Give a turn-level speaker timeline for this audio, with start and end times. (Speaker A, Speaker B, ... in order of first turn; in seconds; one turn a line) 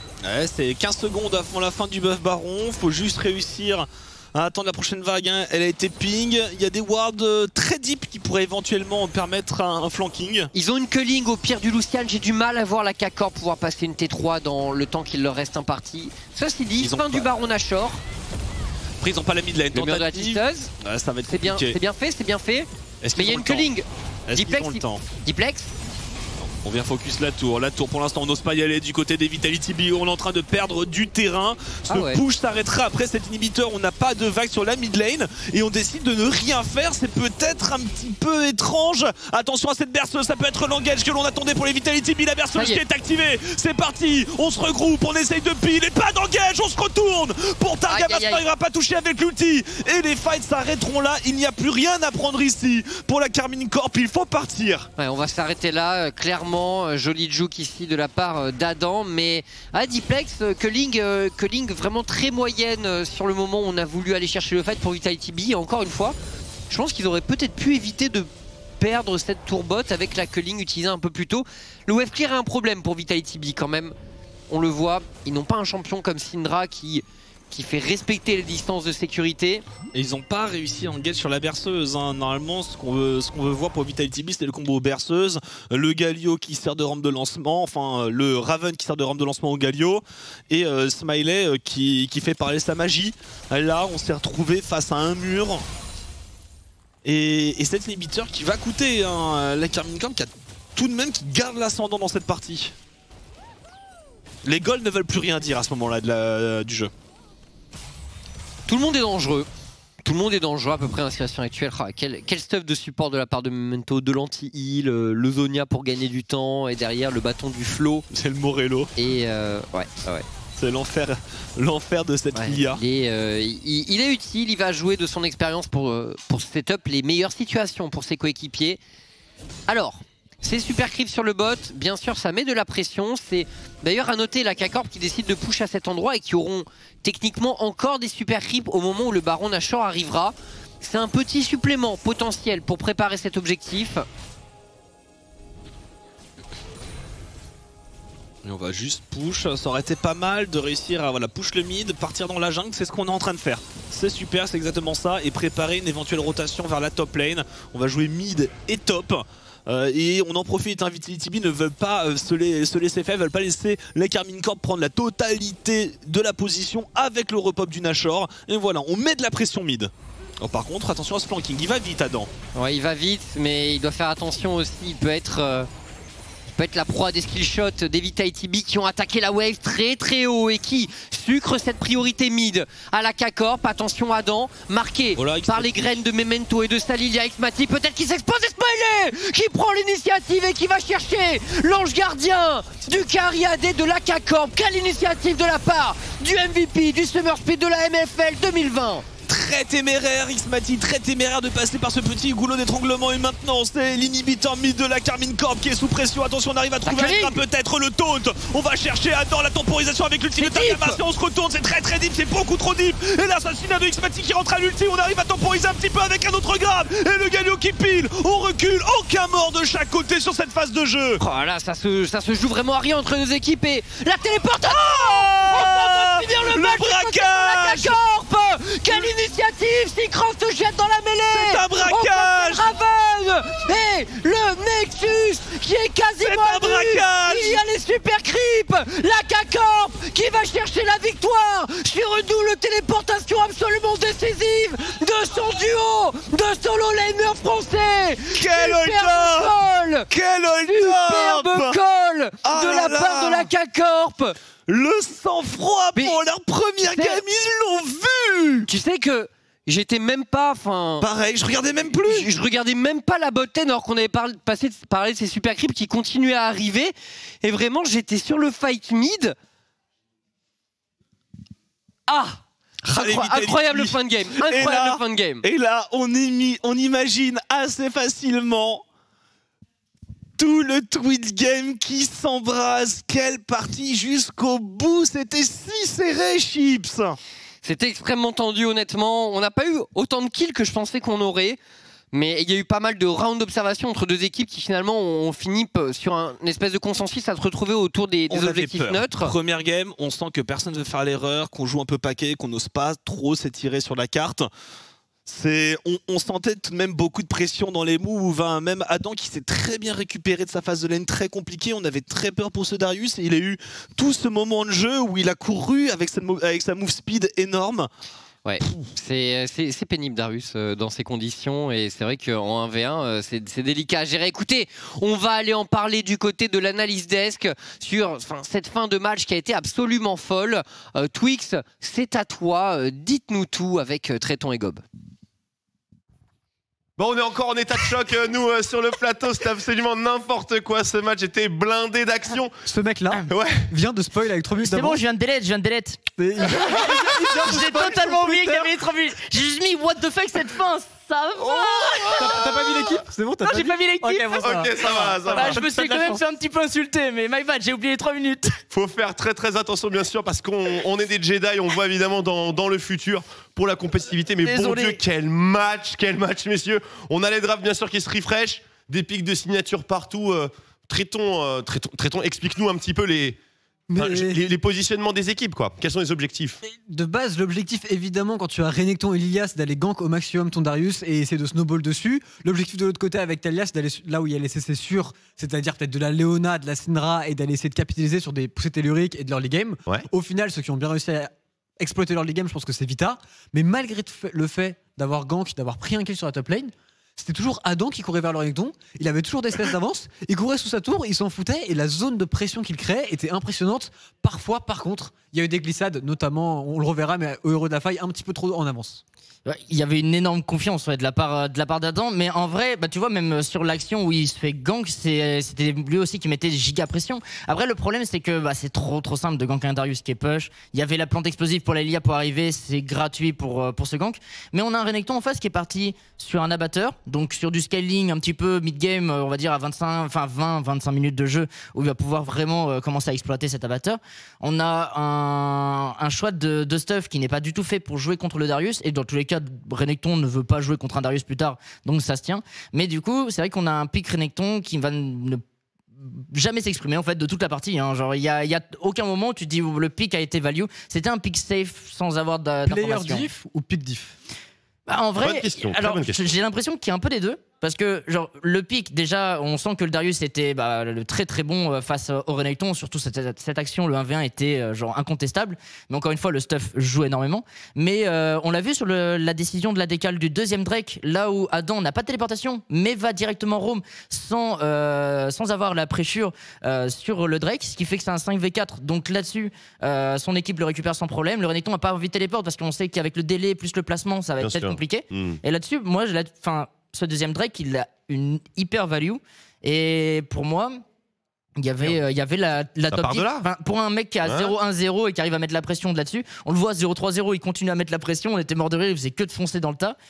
Speaker A: 0.2-10.5
Speaker B: 10.5-18.0
Speaker A: 16.8-17.3
Speaker A: 19.0-21.8
Speaker B: 19.7-20.7
Speaker B: 21.3-25.7
Speaker A: 23.0-23.7
Speaker A: 24.3-25.1
Speaker A: 26.4-54.9
Speaker B: 31.9-32.2
Speaker B: 42.5-42.8
Speaker B: 47.9-48.4
Speaker B: 55.0-66.2
Speaker B: 66.7-73.9
Speaker B: 74.5-79.6
Speaker A: 79.9-95.6
Speaker A: 97.0-102.8
Speaker A: 104.4-106.9
Speaker B: 108.7-109.5
Speaker B: 110.0-118.0
Speaker A: 118.1-118.9
Speaker B: 119.0-120.2
Speaker A: 120.6-122.8
Speaker B: 122.3-128.8
Speaker B: 129.7-144.1
Speaker A: 148.4-172.3
Speaker B: 172.5-175.7
Speaker B: 176.5-199.0
Speaker A: 185.2-186.0
Speaker A: 199.3-221.2
Speaker B: 206.8-207.4
Speaker B: 210.4-211.0
Speaker B: 221.2-250.1
Speaker A: 224.6-227.9
Speaker A: 231.3-232.7
Speaker A: 236.2-237.6
Speaker A: 248.3-249.5
Speaker A: 250.1-251.8
Speaker B: 250.7-254.3
Speaker A: 252.4-253.5
Speaker A: 254.7-258.7
Speaker B: 256.8-257.2
Speaker B: 258.6-261.1
Speaker A: 261.0-262.3
Speaker B: 262.1-269.4
Speaker B: 272.1-275.4
Speaker A: 272.8-278.8
Speaker A: 280.4-287.2
Speaker B: 287.6-291.6
Speaker B: 292.1-299.3
Speaker A: 298.3-304.5
Speaker A: 305.2-317.9
Speaker B: 318.4-334.8
Speaker C: 337.0-342.6
Speaker D: 342.6-345.0
Speaker C: 343.3-343.7
Speaker E: 344.6-352.9
Speaker D: 346.2-348.9
Speaker C: 351.5-352.4
Speaker D: 352.1-356.2
Speaker E: 353.4-358.6
Speaker C: 354.4-355.6
Speaker C: 358.7-373.4
Speaker E: 364.4-365.0
Speaker D: 373.9-374.4
Speaker C: 373.9-376.6
Speaker D: 376.9-409.0
Speaker E: 409.4-445.4
Speaker E: 446.0-453.3
Speaker D: 452.6-454.1
Speaker E: 454.9-490.8
Speaker C: 455.2-456.3
Speaker C: 484.4-485.4
Speaker E: 491.6-499.9
Speaker C: 492.9-493.4
Speaker C: 494.2-494.5